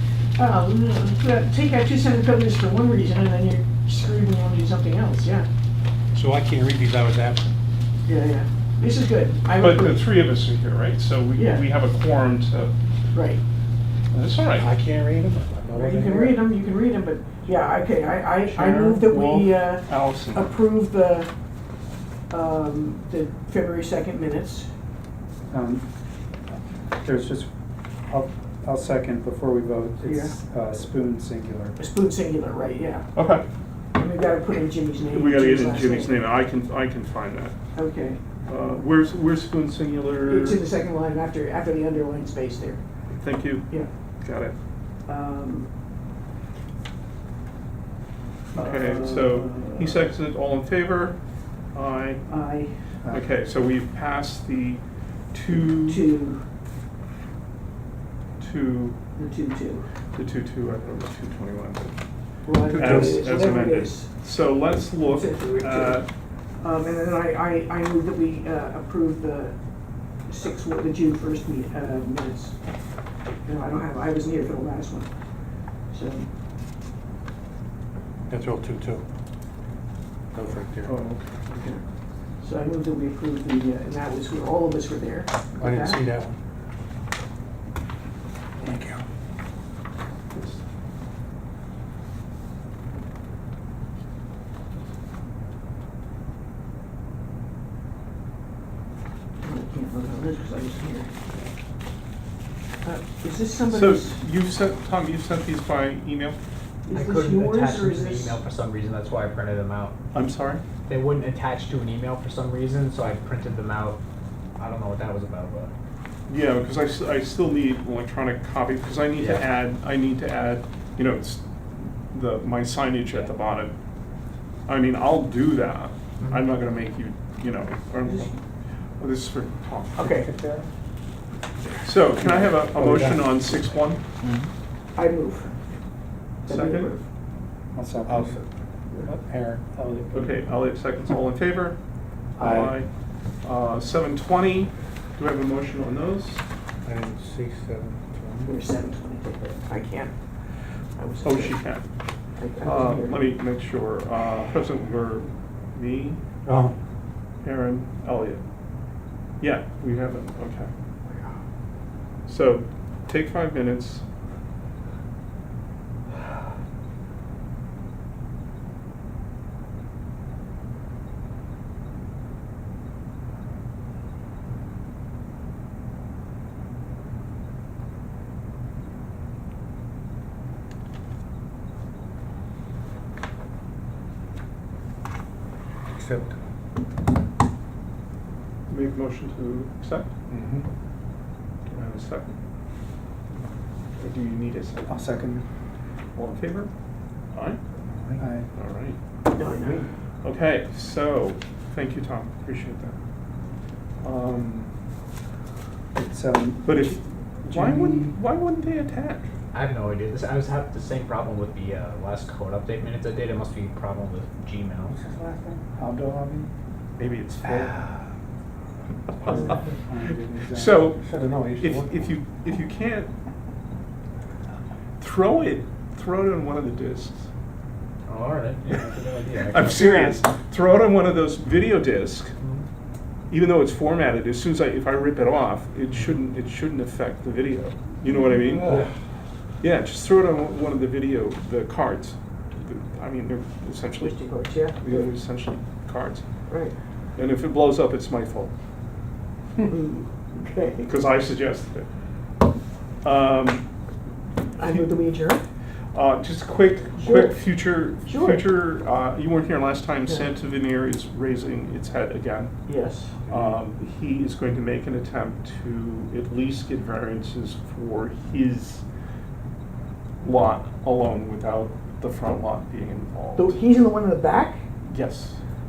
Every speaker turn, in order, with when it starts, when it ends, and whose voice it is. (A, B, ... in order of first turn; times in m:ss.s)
0:00.4-0:05.5 A
0:06.1-0:07.5 B
0:08.0-0:10.0 A
0:09.6-0:12.7 C
0:11.4-0:11.6 A
0:13.1-0:13.4 A
0:14.1-0:14.7 C
0:14.5-0:16.4 B
0:15.7-0:21.3 A
0:18.4-0:20.5 C
0:22.3-0:24.7 A
0:25.5-0:25.8 D
0:27.0-0:27.5 D
0:28.1-0:31.8 D
0:30.0-0:30.4 A
0:31.8-0:33.0 A
0:33.2-0:33.4 C
0:34.0-0:36.2 A
0:35.1-0:37.6 C
0:37.8-0:38.2 A
0:38.5-0:40.6 C
0:40.3-0:42.8 A
0:43.1-0:44.6 C
0:45.1-0:45.7 A
0:48.5-0:51.2 C
0:48.6-0:50.1 A
0:51.7-0:52.2 C
0:52.3-0:52.7 A
0:53.1-0:56.1 C
0:55.5-0:56.4 A
0:58.4-0:59.0 C
0:59.2-0:59.9 A
1:00.1-1:02.0 C
1:02.4-1:04.1 A
1:02.7-1:03.4 B
1:02.7-1:06.1 C
1:05.0-1:06.0 A
1:06.6-1:09.6 A
1:10.3-1:12.6 A
1:13.4-1:15.1 A
1:15.9-1:16.3 A
1:18.3-1:19.0 B
1:20.3-1:20.9 B
1:20.8-1:21.4 C
1:21.5-1:21.8 A
1:22.4-1:26.0 A
1:25.6-1:26.4 B
1:28.6-1:29.0 B
1:30.3-1:30.6 C
1:39.4-1:41.2 A
1:42.8-1:44.2 A
1:43.7-1:46.4 C
1:46.8-1:48.4 A
1:46.9-1:50.0 E
1:50.1-1:50.6 C
1:50.9-1:54.0 E
1:54.6-1:55.7 E
1:56.3-2:03.7 C
1:59.2-1:59.4 E
2:04.7-2:08.3 C
2:08.0-2:08.4 A
2:09.0-2:10.1 C
2:10.0-2:10.3 A
2:10.0-2:10.7 D
2:11.8-2:14.0 C
2:12.3-2:13.3 D
2:15.0-2:15.5 A
2:16.5-2:17.1 A
2:16.5-2:16.9 C
2:17.7-2:18.4 D
2:18.1-2:18.5 B
2:19.1-2:20.4 D
2:19.2-2:19.7 B
2:20.1-2:21.8 C
2:22.4-2:22.9 C
2:22.4-2:22.8 D
2:23.4-2:26.4 C
2:26.8-2:28.6 B
2:28.5-2:30.1 A
2:31.0-2:31.6 A
2:31.2-2:31.8 C
2:32.4-2:33.3 A
2:32.6-2:36.2 C
2:37.4-2:38.4 C
2:39.4-2:40.7 C
2:41.1-2:41.4 A
2:42.2-2:44.0 C
3:05.9-3:06.3 B
3:08.7-3:10.1 C
3:11.7-3:12.4 C
3:14.0-3:15.1 C
3:14.9-3:15.4 D
3:16.2-3:16.7 C
3:17.3-3:17.6 C
3:18.2-3:18.5 D
3:18.5-3:19.0 C
3:19.3-3:19.9 A
3:20.2-3:23.0 C
3:24.0-3:24.7 C
3:26.0-3:28.2 D
3:26.6-3:29.3 C
3:29.5-3:35.0 E
3:35.1-3:35.6 B
3:35.6-3:36.5 D
3:37.0-3:37.8 C
3:39.2-3:41.3 D
3:39.2-3:39.5 C
3:40.5-3:41.0 C
3:41.1-3:41.9 B
3:41.6-3:43.1 C
3:45.0-3:47.3 C
3:48.1-3:49.8 E
3:49.5-3:52.3 C
3:49.8-3:50.2 D
3:53.3-3:58.8 C
3:59.6-4:04.2 C
4:04.0-4:05.1 A
4:04.8-4:06.2 C
4:06.5-4:06.8 A
4:07.2-4:08.5 C
4:09.6-4:10.9 A
4:10.8-4:11.9 C
4:13.0-4:13.6 C
4:14.6-4:14.9 C
4:14.6-4:15.4 A
4:15.9-4:22.6 C
4:17.0-4:17.4 A
4:18.0-4:18.4 A
4:22.7-4:23.2 A
4:23.3-4:28.8 C
4:30.2-4:33.6 C
4:33.4-4:34.6 A
4:34.9-4:35.4 C